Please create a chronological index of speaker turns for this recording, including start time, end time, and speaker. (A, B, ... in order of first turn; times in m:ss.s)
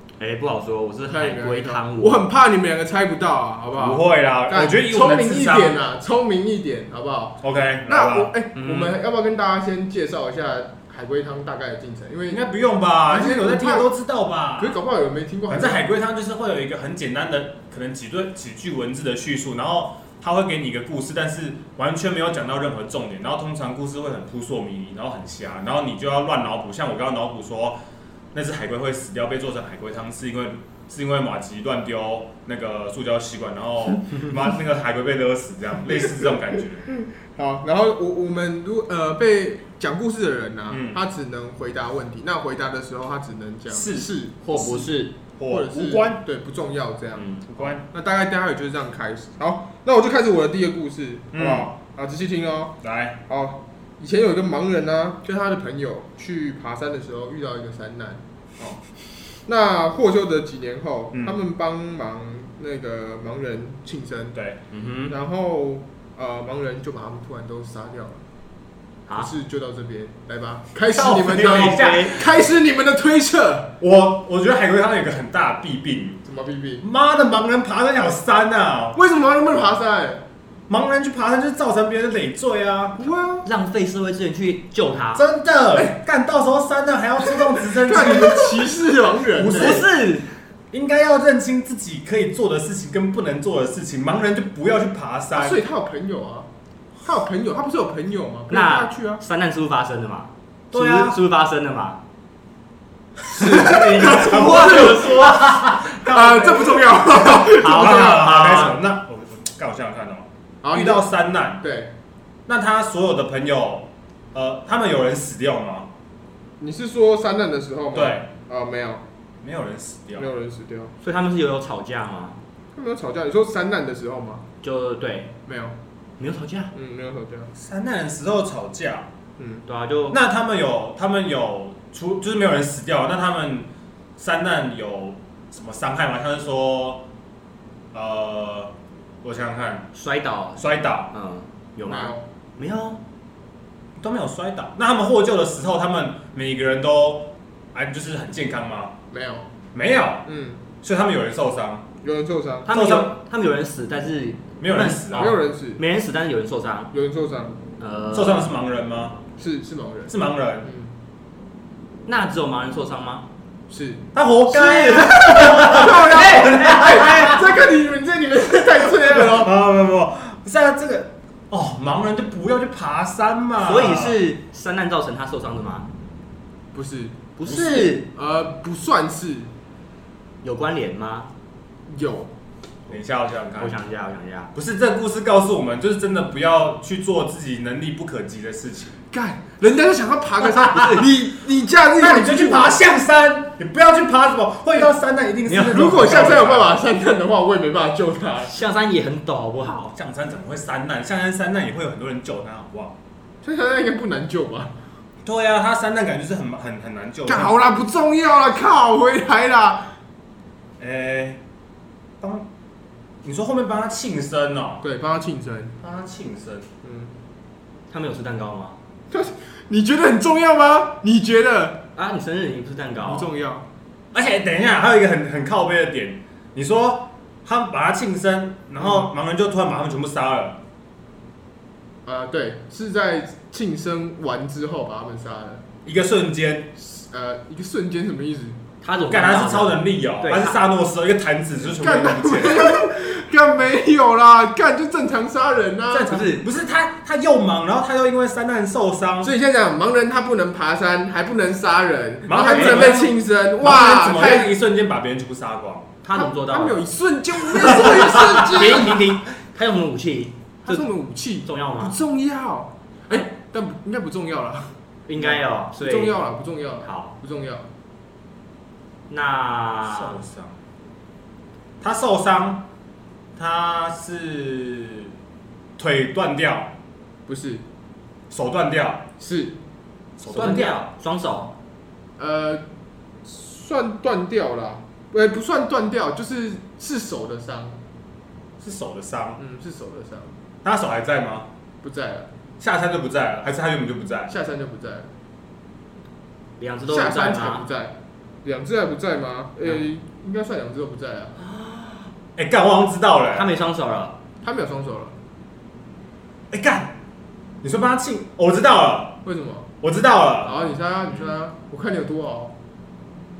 0:00.2-0:02.2 A
0:01.1-0:12.4 B
0:03.8-0:05.8 C
0:07.4-0:08.3 C
0:08.6-0:09.0 A
0:12.3-0:14.8 C
0:13.1-0:13.9 B
0:14.6-0:15.8 B
0:15.5-0:27.8 C
0:28.3-0:36.9 C
0:35.9-0:44.9 B
0:40.7-0:41.0 C
0:43.7-0:44.1 C
0:44.4-0:45.1 A
0:45.4-0:46.2 C
0:45.5-0:58.2 B
0:47.2-0:47.5 A
0:47.5-0:47.9 C
0:51.3-0:51.7 C
0:52.8-0:53.2 C
0:59.5-1:04.4 B
1:04.7-1:05.1 A
1:05.1-1:08.2 B
1:09.2-1:13.7 B
1:10.9-1:12.3 C
1:11.4-1:12.2 A
1:13.8-1:16.2 C
1:16.2-1:16.8 B
1:16.8-1:19.0 C
1:19.0-1:20.2 B
1:20.7-1:23.1 C
1:23.0-1:23.5 B
1:23.4-1:25.2 A
1:25.1-1:28.7 C
1:27.3-1:29.8 B
1:29.3-1:29.9 C
1:29.5-1:30.4 A
1:30.7-1:35.6 C
1:35.4-1:36.5 B
1:37.0-1:39.2 B
1:38.5-1:42.0 A
1:40.7-1:41.2 C
1:43.2-1:51.6 C
1:43.3-1:48.7 B
1:44.3-1:44.9 A
1:47.5-1:48.8 A
1:50.6-1:51.1 B
1:51.6-1:51.9 B
1:52.5-1:55.9 C
1:56.6-1:59.0 B
1:57.9-1:58.3 C
1:59.4-2:00.3 C
2:00.2-2:00.9 B
2:01.0-2:02.4 A
2:02.8-2:04.4 B
2:04.6-2:05.3 A
2:05.5-2:05.8 B
2:06.2-2:06.7 A
2:06.7-2:07.5 B
2:07.5-2:09.1 C
2:09.4-2:09.6 B
2:09.7-2:10.2 A
2:10.1-2:17.0 C
2:17.9-2:18.7 C
2:19.2-2:19.9 C
2:19.9-2:23.0 A
2:20.6-2:21.1 C
2:21.8-2:22.2 B
2:24.0-2:29.0 C
2:29.1-2:29.5 B
2:29.7-2:30.3 C
2:30.3-2:30.6 B
2:30.8-2:31.8 C
2:32.0-2:32.7 B
2:32.7-2:36.9 A
2:32.7-2:33.2 C
2:34.6-2:35.4 C
2:35.1-2:35.8 B
2:36.9-2:37.6 B
2:37.8-2:38.5 A
2:38.1-2:39.2 C
2:39.4-2:40.9 B
2:40.1-2:40.7 C
2:42.1-2:43.3 A
2:43.7-2:44.1 B
2:44.1-2:47.5 C
2:44.5-2:47.4 A
2:45.3-2:49.5 B
2:48.7-2:54.2 C
2:53.6-2:55.9 A
2:56.7-2:59.5 B
2:57.4-2:58.1 A
2:57.5-2:57.9 C
3:00.4-3:01.3 A
3:01.9-3:02.3 B
3:02.9-3:03.8 C
3:03.6-3:04.5 A
3:04.5-3:09.0 C
3:09.1-3:12.8 B
3:10.4-3:11.1 C
3:12.0-3:16.7 C
3:15.5-3:15.8 A
3:15.6-3:18.5 B
3:18.4-3:19.9 A
3:19.9-3:22.9 C
3:23.4-3:24.7 B
3:25.2-3:27.6 C
3:27.3-3:29.9 B
3:30.8-3:31.4 C
3:32.2-3:32.5 C
3:33.2-3:34.8 C
3:34.8-3:35.8 B
3:35.8-3:36.7 C
3:36.8-3:37.1 B
3:37.9-3:38.8 A
3:39.1-3:41.8 B
3:42.0-3:43.3 A
3:43.0-3:43.6 B
3:44.1-3:50.6 C
3:48.8-3:49.1 B
3:52.0-3:55.6 B
3:55.8-3:56.7 C
3:56.8-3:58.6 B
3:58.8-4:00.6 A
3:59.1-4:02.8 C
4:01.6-4:06.3 B
4:05.9-4:09.3 C
4:06.1-4:06.4 A
4:09.2-4:14.5 B
4:12.3-4:15.9 C
4:12.4-4:12.6 A
4:16.0-4:16.8 A
4:16.1-4:19.0 B
4:17.5-4:20.9 A
4:20.6-4:24.7 B
4:21.4-4:22.0 A
4:25.1-4:26.2 A
4:25.8-4:27.7 B
4:26.8-4:27.2 A
4:29.1-4:30.2 A
4:29.8-4:30.6 C
4:31.8-4:32.7 C
4:33.4-4:35.1 C
4:35.8-4:36.7 C
4:37.3-4:37.6 B
4:38.3-4:39.1 C
4:39.2-4:39.6 B
4:40.2-4:40.8 C
4:40.3-4:41.5 A
4:42.2-4:42.6 B
4:43.2-4:47.8 B
4:48.6-4:49.4 C
4:49.4-4:50.4 B
4:50.6-4:51.5 C
4:51.8-4:52.3 B
4:52.6-4:54.3 C
4:54.3-4:55.1 B
4:56.6-4:57.7 A
4:56.9-5:01.4 B
5:02.4-5:03.5 C
5:03.3-5:04.2 A
5:04.4-5:05.2 B
5:06.5-5:06.9 C
5:07.6-5:09.2 C
5:09.2-5:09.7 B
5:09.8-5:10.7 C
5:10.4-5:12.5 B